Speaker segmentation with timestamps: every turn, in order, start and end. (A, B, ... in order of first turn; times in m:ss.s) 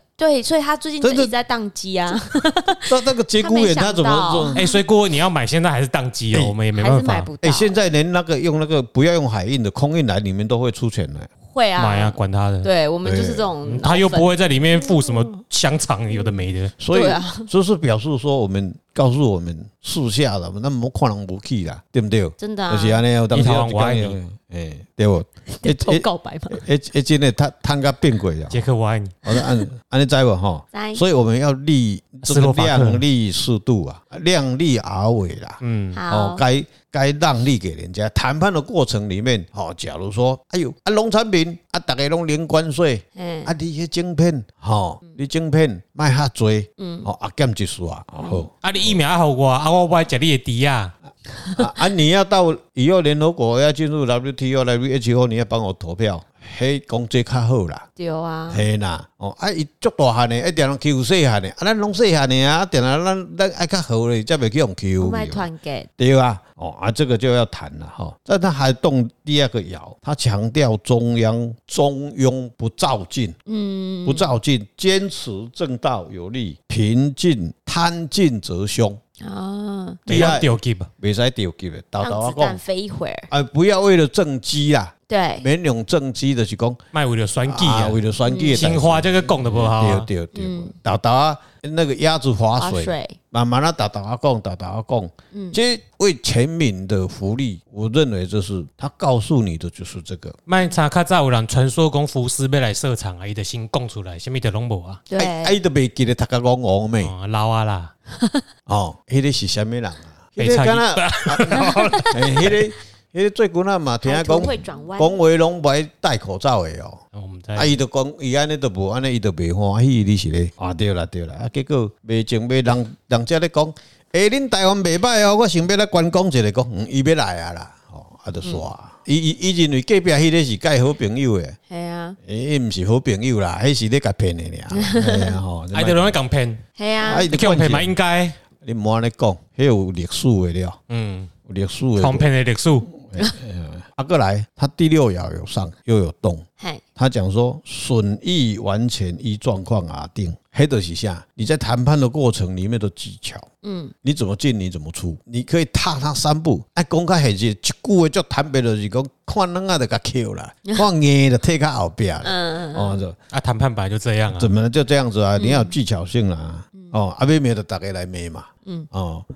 0:00.2-0:04.8 A
0:01.0-0:01.3 B
0:02.9-0:04.6 B
0:04.6-0:07.3 C
0:06.8-0:07.8 A
0:07.4-0:11.3 B
0:11.5-0:15.3 A
0:11.8-0:12.7 C
0:13.0-0:13.5 B
0:13.6-0:16.8 C
0:16.8-0:28.7 B
0:16.9-0:17.5 A
0:22.4-0:23.0 A
0:23.3-0:24.2 C
0:25.5-0:26.6 A
0:28.5-0:29.2 C
0:29.2-0:49.0 B
0:30.7-0:31.0 A
0:32.2-0:33.0 C
0:35.6-0:36.0 C
0:35.9-0:36.4 A
0:43.2-0:43.6 A
0:46.8-0:47.1 A
0:48.6-0:50.9 C
0:51.6-0:57.8 B
0:58.0-0:58.6 A
0:58.5-1:05.5 B
1:05.0-1:05.9 A
1:06.0-1:13.4 B
1:13.5-1:14.3 A
1:14.0-1:19.0 B
1:19.2-1:20.0 A
1:20.1-1:22.6 B
1:20.1-1:20.9 C
1:22.0-1:23.3 A
1:23.3-1:26.8 B
1:25.1-1:25.5 A
1:26.9-1:30.1 C
1:27.4-1:40.4 B
1:28.2-1:28.7 A
1:30.3-1:30.7 A
1:32.6-1:33.2 A
1:35.3-1:35.6 A
1:40.5-1:45.1 C
1:45.1-1:45.6 A
1:45.2-1:47.1 B
1:47.0-1:47.9 C
1:48.1-1:48.4 A
1:48.7-1:57.0 B
1:50.4-1:52.6 C
1:51.6-1:52.1 A
1:54.0-1:55.2 A
1:57.1-1:57.7 C
1:57.6-2:11.6 B
2:11.7-2:12.2 A
2:12.2-2:16.2 B
2:14.7-2:15.4 A
2:15.7-2:16.6 C
2:16.8-2:17.3 A
2:17.0-2:17.9 B
2:17.2-2:18.4 C
2:18.6-2:20.8 B
2:20.9-2:21.3 C
2:21.5-2:22.3 B
2:22.0-2:22.9 C
2:22.9-2:33.5 B
2:33.6-2:33.9 A
2:34.0-2:43.2 B
2:42.2-2:43.0 A
2:43.3-2:44.5 C
2:44.3-2:49.3 B
2:45.4-2:45.8 A